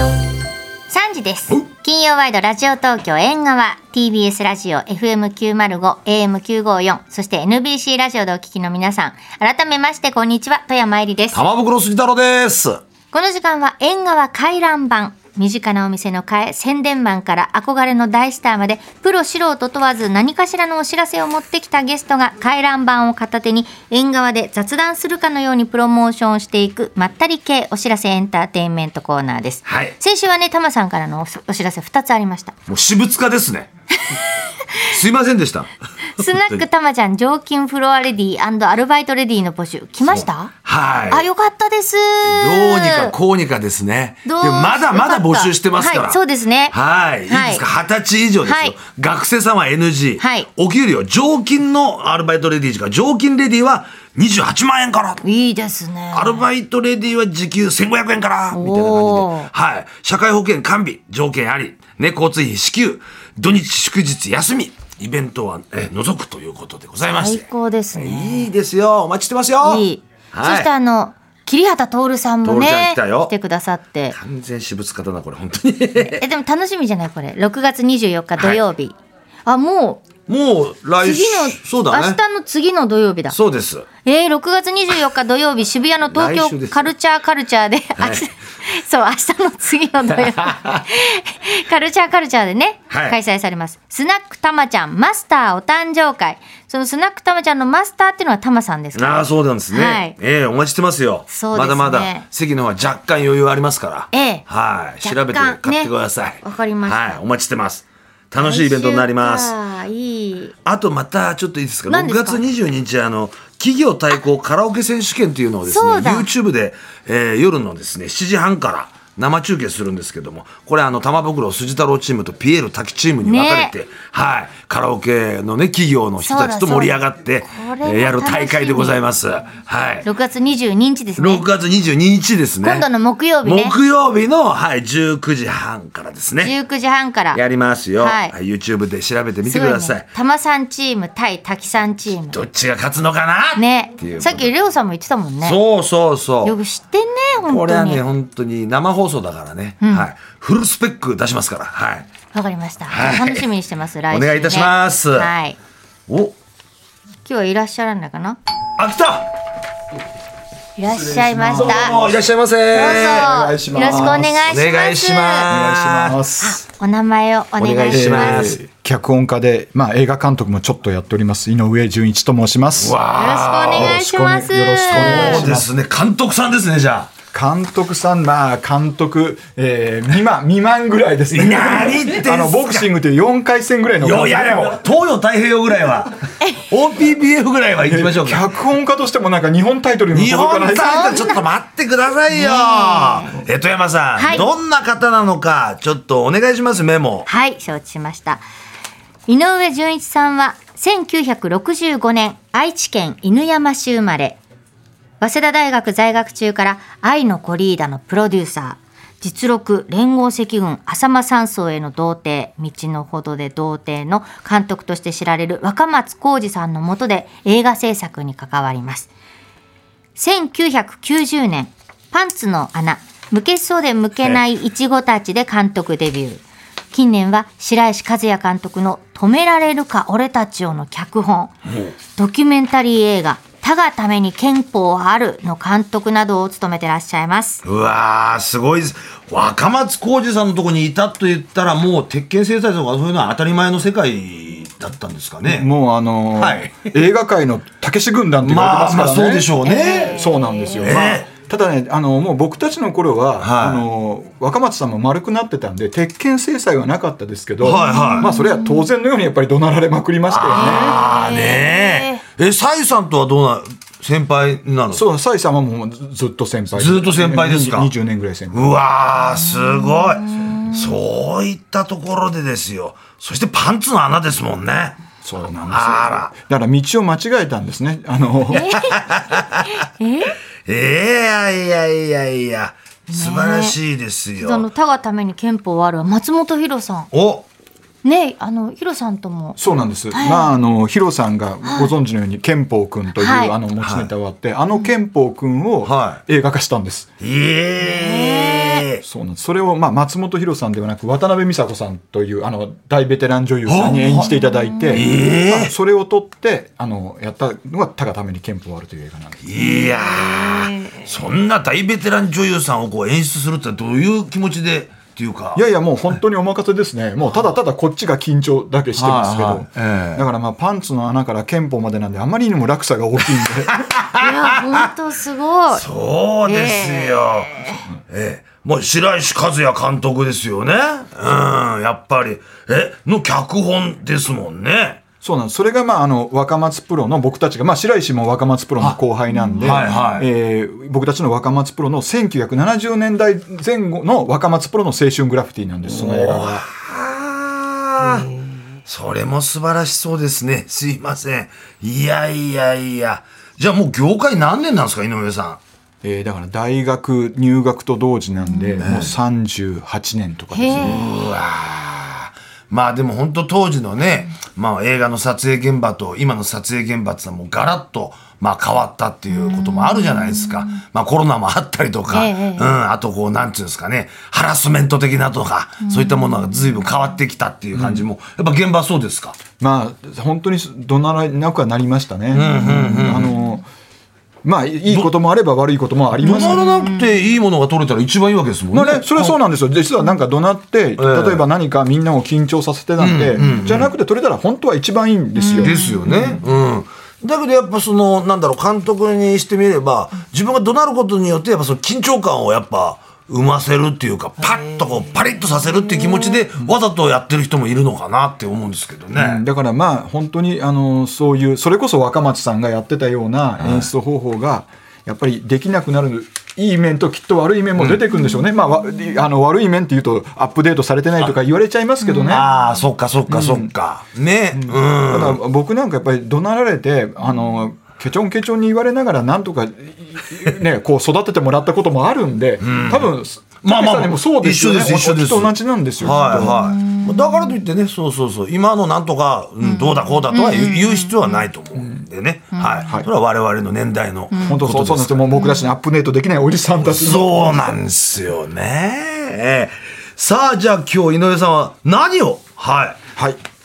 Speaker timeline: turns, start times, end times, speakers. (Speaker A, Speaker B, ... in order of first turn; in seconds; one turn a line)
Speaker A: 0.9-11.4
Speaker B: 11.3-12.8
Speaker A: 13.1-32.5
Speaker B: 29.7-29.9
Speaker B: 32.7-33.7
Speaker A: 34.1-34.9
Speaker B: 34.9-36.6
Speaker A: 36.2-40.5
Speaker B: 40.1-41.3
Speaker A: 41.1-43.1
Speaker B: 42.2-46.2
Speaker A: 44.2-46.8
Speaker B: 46.7-55.2
Speaker A: 47.3-47.6
Speaker A: 48.5-48.8
Speaker A: 50.2-50.5
Speaker A: 55.2-56.5
Speaker B: 56.1-70.7
Speaker A: 58.5-59.5
Speaker A: 67.1-68.5
Speaker A: 69.6-74.2
Speaker B: 72.4-73.3
Speaker B: 74.1-76.2
Speaker A: 76.0-79.0
Speaker A: 79.5-80.0
Speaker B: 80.3-82.2
Speaker A: 81.0-83.4
Speaker B: 83.3-83.9
Speaker A: 84.0-100.2
Speaker B: 86.1-86.9
Speaker B: 88.0-88.2
Speaker B: 90.2-90.8
Speaker B: 92.9-93.2
Speaker B: 99.0-109.5
Speaker A: 101.3-102.2
Speaker A: 104.1-104.4
Speaker A: 105.0-107.2
Speaker A: 108.4-110.5
Speaker B: 110.7-130.1
Speaker A: 111.9-112.4
Speaker A: 115.7-116.3
Speaker A: 123.2-123.7
Speaker A: 126.2-129.0
Speaker A: 130.0-131.4
Speaker B: 131.2-132.9
Speaker A: 132.6-133.8
Speaker B: 133.4-136.5
Speaker A: 136.4-137.4
Speaker B: 137.3-140.1
Speaker A: 138.0-138.3
Speaker A: 139.5-142.4
Speaker B: 142.3-144.5
Speaker A: 143.6-145.6
Speaker B: 145.4-146.6
Speaker A: 146.4-148.0
Speaker B: 147.5-152.1
Speaker A: 149.8-150.1
Speaker A: 152.3-155.6
Speaker B: 152.9-153.5
Speaker B: 154.1-155.3
Speaker B: 156.1-156.3
Speaker A: 157.2-158.4
Speaker B: 158.8-159.3
Speaker A: 160.8-161.9
Speaker C: 160.9-162.2
Speaker B: 161.4-166.3
Speaker A: 162.7-165.5
Speaker C: 162.8-164.3
Speaker C: 165.5-166.6
Speaker A: 166.4-168.6
Speaker B: 167.6-168.6
Speaker C: 167.9-173.0
Speaker B: 172.8-174.0
Speaker A: 173.1-175.4
Speaker C: 173.7-175.7
Speaker B: 174.9-177.1
Speaker C: 177.3-184.8
Speaker B: 181.3-182.9
Speaker B: 184.0-188.4
Speaker C: 187.9-191.2
Speaker B: 190.1-197.3
Speaker A: 191.0-191.4
Speaker A: 192.3-193.4
Speaker A: 194.2-194.5
Speaker A: 197.3-198.4
Speaker A: 199.3-204.4
Speaker A: 205.2-219.1
Speaker A: 220.2-231.5
Speaker B: 231.7-231.9
Speaker A: 232.2-237.6
Speaker B: 237.7-245.7
Speaker C: 245.4-261.0
Speaker B: 246.4-246.9
Speaker B: 248.4-250.2
Speaker A: 249.6-251.1
Speaker B: 250.8-251.3
Speaker B: 253.4-253.9
Speaker B: 257.6-258.3
Speaker A: 257.7-258.9
Speaker B: 260.3-265.1
Speaker A: 260.6-262.2
Speaker C: 264.9-268.7
Speaker B: 266.8-267.9
Speaker B: 268.5-275.0
Speaker A: 269.4-271.0
Speaker C: 275.2-278.7
Speaker B: 275.7-276.3
Speaker A: 278.5-279.1
Speaker B: 278.5-279.7
Speaker A: 279.6-280.4
Speaker B: 280.7-284.7
Speaker A: 283.1-283.8
Speaker A: 284.4-287.1
Speaker B: 287.1-287.5
Speaker A: 288.0-289.6
Speaker C: 289.6-297.1
Speaker A: 290.1-290.5
Speaker A: 291.6-291.9
Speaker A: 293.2-293.5
Speaker B: 293.8-294.1
Speaker B: 295.8-296.2
Speaker B: 297.2-299.0
Speaker A: 297.8-298.9
Speaker C: 299.0-309.4
Speaker B: 303.7-304.4
Speaker A: 303.9-305.0
Speaker B: 304.9-305.7
Speaker B: 309.4-315.6
Speaker A: 309.6-311.1
Speaker C: 315.6-323.9
Speaker B: 319.0-320.2
Speaker B: 323.7-324.9
Speaker A: 324.2-325.8
Speaker B: 325.7-335.0
Speaker A: 326.5-327.8
Speaker C: 335.2-346.6
Speaker B: 339.6-340.3
Speaker B: 345.9-348.3
Speaker B: 348.9-355.6
Speaker C: 356.0-361.0
Speaker A: 358.5-358.9
Speaker B: 358.8-359.1
Speaker A: 360.5-361.0
Speaker B: 360.8-379.4
Speaker A: 369.3-370.8
Speaker A: 372.1-372.7
Speaker A: 375.8-376.6
Speaker C: 377.8-378.1
Speaker C: 379.6-383.6
Speaker B: 382.3-383.4
Speaker A: 382.4-383.6
Speaker C: 384.4-386.6
Speaker A: 386.2-387.1
Speaker B: 386.2-389.4
Speaker C: 388.7-396.4
Speaker B: 391.0-391.4
Speaker B: 393.0-393.9
Speaker A: 393.4-393.7
Speaker A: 395.4-396.4
Speaker B: 395.6-409.4
Speaker A: 404.5-405.0
Speaker A: 405.9-406.4
Speaker C: 409.1-422.5
Speaker B: 413.6-413.9
Speaker A: 418.2-418.5
Speaker A: 422.0-422.4
Speaker B: 422.3-425.4
Speaker C: 423.3-423.7
Speaker C: 424.5-436.6
Speaker B: 432.6-445.2
Speaker A: 436.3-437.6
Speaker A: 439.6-441.5
Speaker A: 442.5-442.9
Speaker A: 444.3-444.6
Speaker C: 444.4-447.8
Speaker A: 445.4-445.7
Speaker B: 446.8-453.0